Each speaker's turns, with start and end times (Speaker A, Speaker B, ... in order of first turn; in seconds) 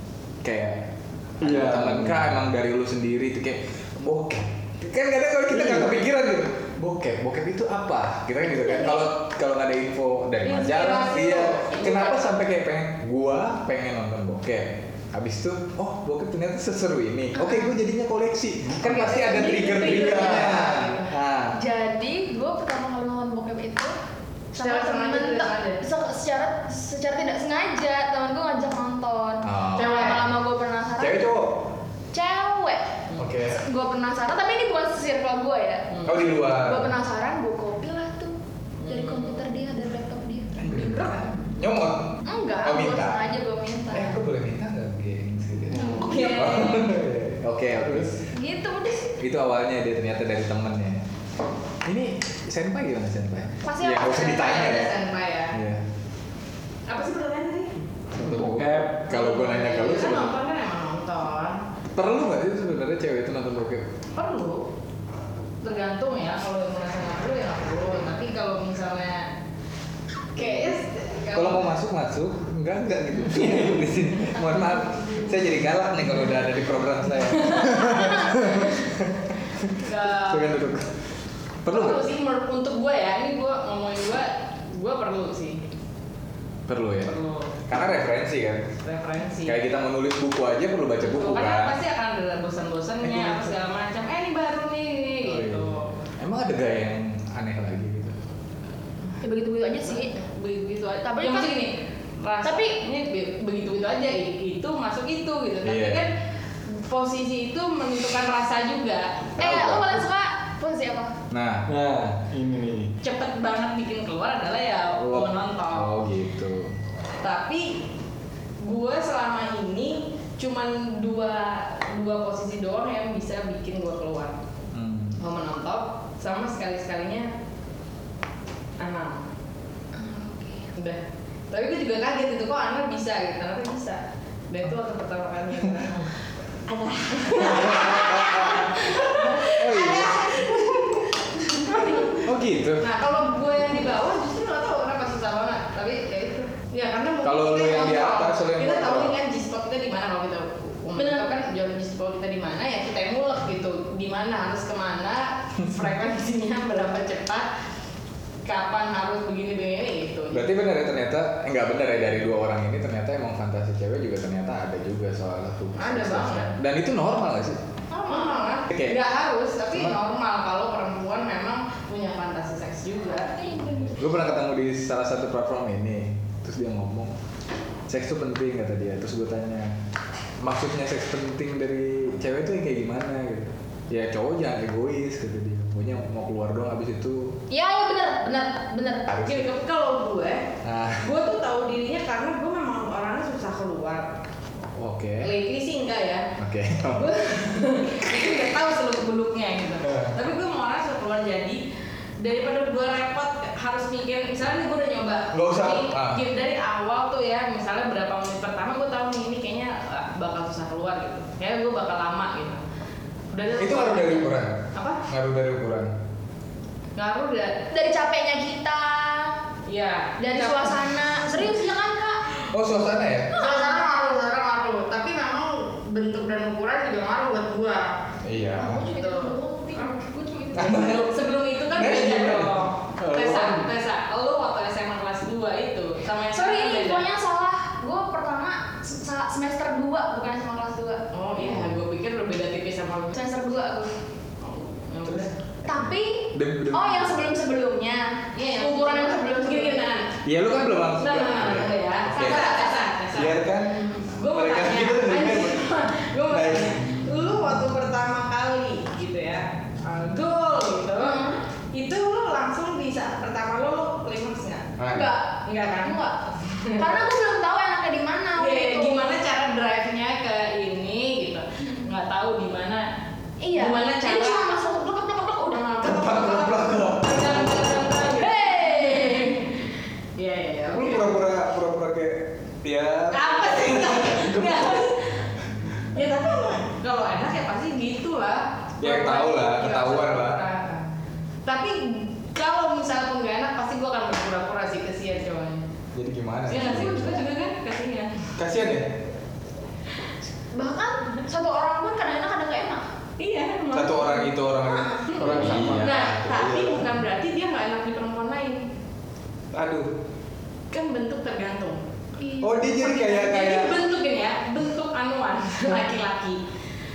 Speaker A: 0.4-21.6, 29.4-30.3, 31.0-31.6, 33.2-33.6, 36.0-36.9, 40.6-43.2, 43.9-48.2, 49.2-51.0, 51.8-54.9, 55.5-55.8, 58.1-60.3, 61.9-63.9, 70.4-70.7, 71.3-80.9, 81.6-82.0, 86.7-87.1, 87.7-88.7, 89.4-91.8, 93.0-93.5, 95.2-98.2, 105.6-106.0, 109.4-110.0, 111.3-111.7, 115.0-116.7, 124.7-125.2, 137.4-138.7, 139.4-140.3, 142.2-142.8, 147.2-149.1, 160.3-167.6, 168.7-169.0, 173.9-177.1, 177.9-179.8, 180.4-187.4, 189.1-189.4, 190.6-191.1, 194.8-195.3, 196.4-197.1, 199.8-200.1, 205.3-206.2, 213.6-215.9, 222.5-223.3, 228.2-228.8, 230.5-231.1, 231.7-232.5, 241.4-241.7, 245.0-247.1, 250.2-252.4, 253.1-255.6, 256.3-257.0, 264.8-265.1, 275.8-277.3, 280.7-284.7, 288.8-290.4, 295.9-297.0, 298.4-298.9, 303.7-306.9, 309.5-309.9, 312.4-313.7
Speaker B: 1.4-2.3, 5.5-5.9, 45.7-46.3, 58.2-59.0, 111.7-112.9, 233.0-233.7, 305.1-306.1
Speaker C: 8.6-9.1, 17.3-17.7, 21.6-23.9, 24.5-31.2, 32.1-32.9, 33.5-38.3, 38.8-40.6, 42.2-44.2, 45.8-46.8, 48.3-49.2, 53.6-54.2, 99.2-100.1, 101.0-101.7, 102.4-102.8, 109.4-111.1, 129.9-130.7, 136.7-141.0, 141.6-142.1, 150.9-151.3, 167.9-168.6, 173.2-174.2, 187.5-189.1, 217.7-219.3, 220.2-222.2, 223.3-223.9, 228.5-231.1, 236.3-241.0, 243.1-243.9, 245.6-249.9, 252.2-252.8, 261.0-261.4, 264.9-266.2, 266.8-269.1, 273.4-275.8, 278.1-279.4, 296.6-297.2, 300.5-302.9, 304.7-305.1, 312.2-312.6
Speaker D: 10.5-12.3, 19.0-21.1, 24.6-25.8, 29.8-30.2, 38.9-39.3, 45.8-46.8, 54.0-55.6, 56.9-57.7, 59.1-61.6, 64.1-64.7, 65.6-69.3, 70.3-71.7, 77.4-78.3, 79.8-80.6, 81.7-85.6, 87.0-87.5, 88.8-89.6, 91.0-95.9, 99.9-106.1, 106.7-109.3, 113.0-115.9, 117.2-117.8, 118.6-124.3, 125.2-127.3, 128.8-129.2, 130.8-136.1, 137.1-142.2, 142.8-157.5, 158.4-160.4, 165.8-166.5, 168.1-173.3, 189.2-190.5, 191.0-194.1, 195.2-196.3, 196.9-201.6, 202.2-212.6, 213.3-215.0, 216.9-217.6, 219.7-220.8, 223.3-227.9, 228.8-229.9, 230.6-237.0, 241.1-243.1, 244.4-245.3, 248.3-250.1, 251.0-264.7, 265.4-266.9, 268.4-272.9, 273.5-274.4, 275.5-279.6, 280.2-281.1, 283.1-285.2, 285.9-290.8, 291.4-295.6, 296.5-298.3, 303.2-304.3, 305.1-308.6, 310.7-311.8, 312.8-316.4